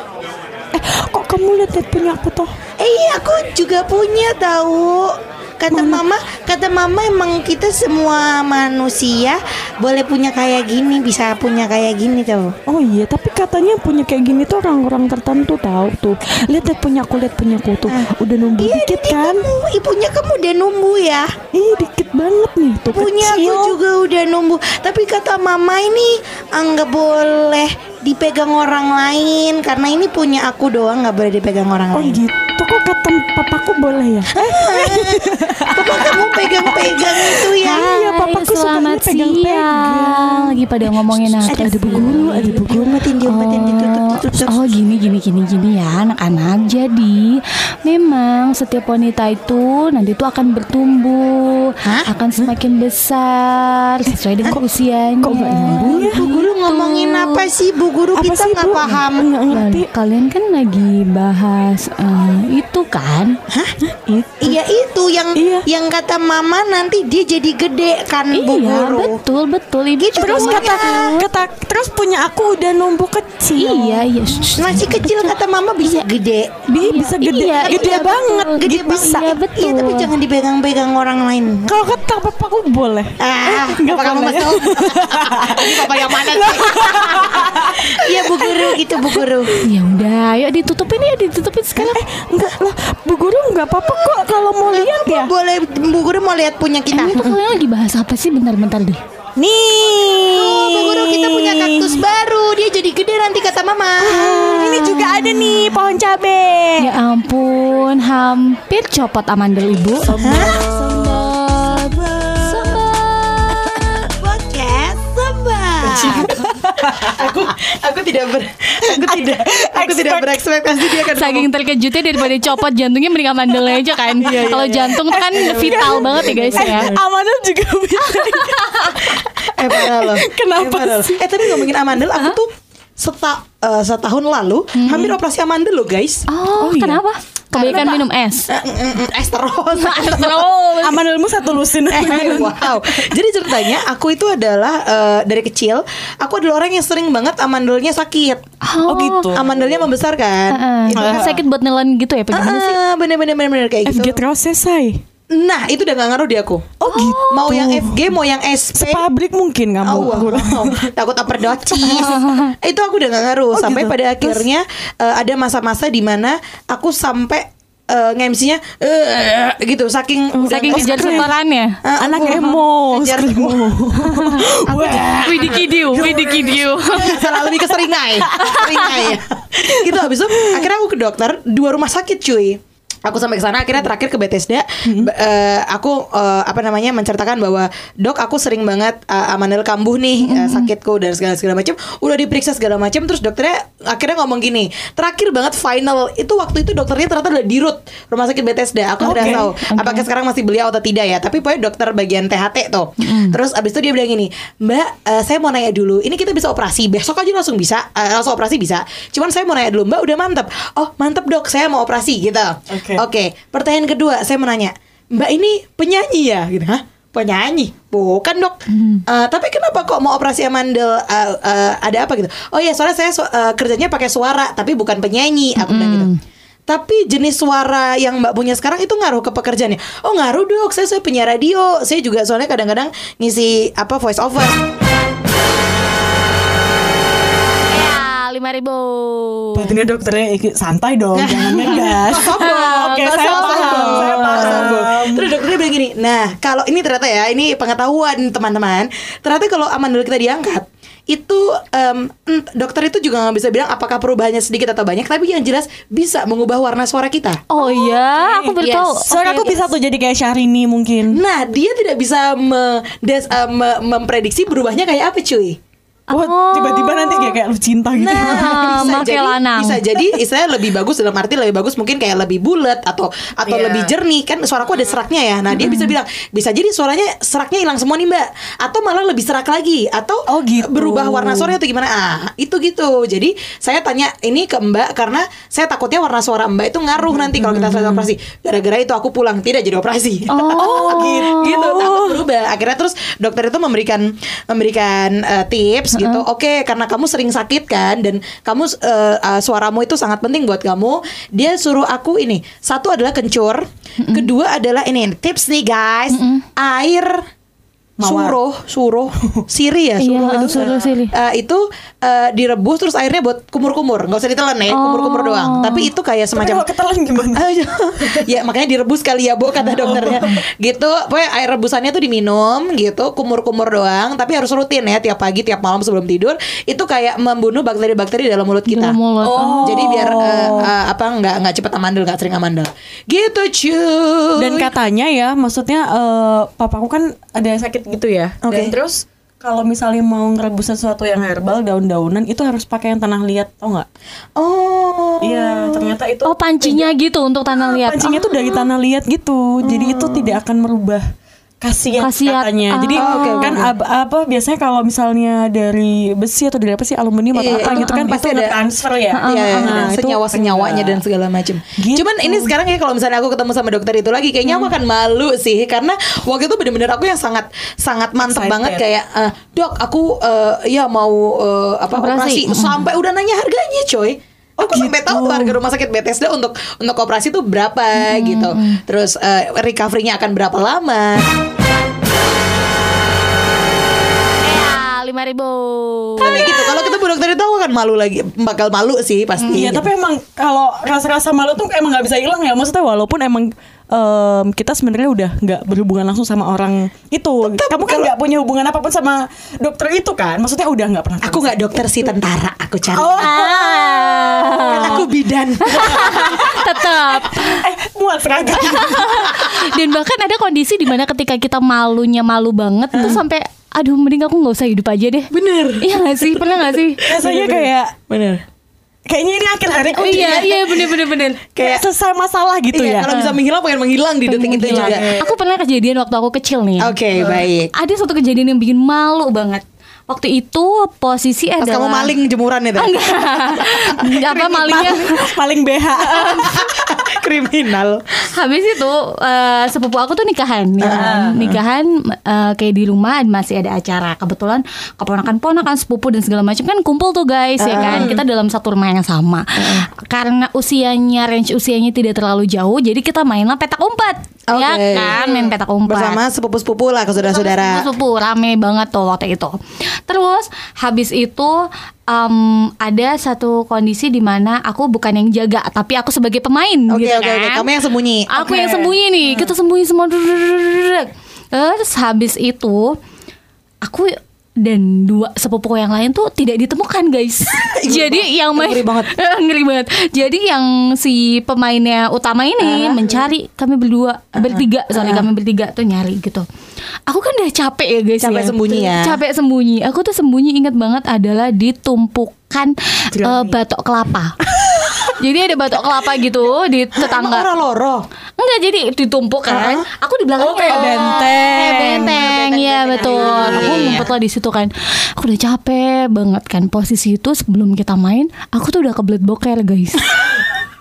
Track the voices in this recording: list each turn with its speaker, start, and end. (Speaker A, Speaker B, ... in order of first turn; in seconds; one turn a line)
Speaker A: 0.7-2.5
Speaker B: 2.8-12.6
Speaker A: 5.7-6.0
Speaker A: 12.7-19.5
Speaker B: 17.9-21.3
Speaker A: 21.5-23.8
Speaker B: 22.9-32.2
Speaker A: 31.9-42.9
Speaker B: 34.3-37.9
Speaker C: 37.6-57.5
Speaker B: 41.5-44.6
Speaker B: 51.8-52.1
Speaker A: 55.2-56.2
Speaker B: 55.7-59.3
Speaker A: 58.1-59.9
Speaker C: 59.5-63.4
Speaker B: 63.5-63.7
Speaker A: 63.8-64.6
Speaker B: 64.4-69.2
Speaker A: 65.3-65.7
Speaker C: 68.3-71.1
Speaker B: 70.0-71.2
Speaker A: 70.2-74.4
Speaker C: 73.5-75.3
Speaker B: 74.5-76.5
Speaker A: 76.7-79.3
Speaker C: 76.8-80.1
Speaker B: 77.7-81.8
Speaker A: 81.7-89.6
Speaker B: 83.2-89.5
Speaker C: 89.6-92.0
Speaker A: 91.9-95.3
Speaker B: 94.6-97.4
Speaker C: 96.9-99.0
Speaker A: 99.4-102.0
Speaker B: 100.3-104.9
Speaker A: 104.0-106.9
Speaker C: 104.3-105.2
Speaker C: 106.8-111.7
Speaker A: 110.0-110.6
Speaker B: 110.2-112.9
Speaker C: 112.4-113.8
Speaker B: 113.5-116.5
Speaker A: 115.8-117.3
Speaker B: 117.1-121.5
Speaker A: 118.8-121.1
Speaker C: 121.1-126.9
Speaker A: 122.2-122.6
Speaker A: 123.5-131.7
Speaker B: 124.2-127.0
Speaker C: 128.0-129.2
Speaker B: 129.4-136.2
Speaker C: 134.7-135.1
Speaker A: 134.9-135.2
Speaker C: 136.3-138.5
Speaker A: 136.6-137.0
Speaker B: 137.5-140.5
Speaker A: 137.6-138.0
Speaker C: 139.7-141.0
Speaker A: 140.8-143.1
Speaker B: 141.9-148.4
Speaker C: 148.6-149.3
Speaker A: 148.8-149.9
Speaker B: 149.3-151.4
Speaker C: 150.5-152.8
Speaker A: 150.9-151.4
Speaker B: 152.3-154.2
Speaker A: 153.8-155.0
Speaker B: 155.3-156.7
Speaker A: 156.8-158.1
Speaker C: 156.9-157.5
Speaker B: 157.3-159.0
Speaker A: 158.7-160.9
Speaker B: 159.8-171.3
Speaker A: 161.8-162.1
Speaker C: 161.8-162.5
Speaker A: 163.5-164.4
Speaker A: 170.3-171.3
Speaker C: 170.4-171.8
Speaker B: 171.8-173.8
Speaker A: 172.0-179.2
Speaker C: 174.0-174.5
Speaker B: 174.6-175.6
Speaker C: 175.2-177.2
Speaker B: 176.9-226.1
Speaker C: 178.5-178.9
Speaker A: 179.7-180.7
Speaker A: 184.8-185.1
Speaker C: 190.2-190.7
Speaker C: 199.0-200.1
Speaker A: 199.0-199.5
Speaker C: 203.0-203.3
Speaker A: 212.7-213.0
Speaker C: 218.7-219.0
Speaker C: 225.6-226.2
Speaker B: 226.7-234.6
Speaker C: 237.7-239.8
Speaker A: 239.6-245.3
Speaker B: 241.1-257.4
Speaker C: 241.6-244.7
Speaker C: 257.5-259.6
Speaker A: 258.1-258.6
Speaker B: 258.6-259.3
Speaker A: 259.1-261.2
Speaker B: 261.1-265.6
Speaker C: 266.1-267.4
Speaker A: 266.1-268.9
Speaker B: 267.9-307.2
Speaker C: 268.1-269.8
Speaker A: 273.4-273.9
Speaker C: 275.5-275.9
Speaker A: 280.3-281.5
Speaker A: 287.0-288.1
Speaker C: 290.3-291.6
Speaker A: 290.5-292.2
Speaker C: 295.9-296.2
Speaker C: 304.0-304.3
Speaker C: 306.1-306.4
Speaker A: 308.0-308.4
Speaker B: 308.0-316.6
Speaker C: 310.0-311.1
Speaker C: 314.7-315.9
Speaker A: 316.3-317.5
Speaker B: 317.3-329.0
Speaker A: 319.6-320.3
Speaker C: 320.1-320.4
Speaker C: 328.7-329.9
Speaker A: 329.2-330.7
Speaker B: 329.6-334.7
Speaker A: 334.4-343.9
Speaker B: 338.4-338.7
Speaker B: 344.4-345.9
Speaker A: 345.2-346.9
Speaker C: 346.2-348.6
Speaker A: 347.5-351.0
Speaker B: 349.6-350.4
Speaker A: 351.6-361.0
Speaker C: 352.0-353.6
Speaker B: 352.9-353.7
Speaker B: 357.3-358.6
Speaker C: 357.7-358.1
Speaker C: 359.1-360.1
Speaker B: 359.2-381.3
Speaker A: 361.8-362.5
Speaker A: 368.2-368.8
Speaker C: 371.9-372.9
Speaker A: 374.6-375.6
Speaker C: 377.9-378.8
Speaker C: 384.4-386.8
Speaker B: 386.2-389.9
Speaker A: 386.2-386.5
Speaker A: 389.5-402.1
Speaker B: 397.4-398.1
Speaker B: 401.2-403.3
Speaker A: 402.9-405.1
Speaker C: 403.2-405.0
Speaker B: 404.7-406.4
Speaker C: 405.6-407.6
Speaker A: 405.7-409.4
Speaker C: 408.5-417.0
Speaker B: 412.9-413.2
Speaker B: 415.3-418.4
Speaker A: 417.0-417.9
Speaker A: 419.1-420.9
Speaker C: 419.9-421.4
Speaker B: 420.0-420.6
Speaker B: 421.6-421.8
Speaker A: 421.6-423.1
Speaker B: 422.7-425.3
Speaker C: 423.0-423.4
Speaker C: 424.2-426.9
Speaker A: 424.5-425.2
Speaker B: 426.8-427.7
Speaker C: 427.7-432.1
Speaker B: 431.6-435.1
Speaker C: 432.8-435.2
Speaker A: 434.0-437.1
Speaker B: 436.1-438.0
Speaker C: 438.3-456.2
Speaker B: 440.8-441.6
Speaker A: 440.9-441.4
Speaker B: 447.6-448.2
Speaker A: 447.7-448.1
Speaker B: 449.6-449.9
Speaker B: 454.5-457.9
Speaker C: 457.2-467.6
Speaker B: 466.9-468.4
Speaker C: 468.3-473.0
Speaker A: 468.4-468.9
Speaker C: 473.8-486.4
Speaker B: 477.6-479.1
Speaker B: 482.6-483.2
Speaker B: 484.4-485.3
Speaker C: 487.1-494.3
Speaker B: 488.2-489.2
Speaker C: 495.2-497.5
Speaker B: 496.9-498.0
Speaker C: 498.4-510.1
Speaker B: 499.5-499.9
Speaker A: 500.4-504.0
Speaker B: 500.7-504.1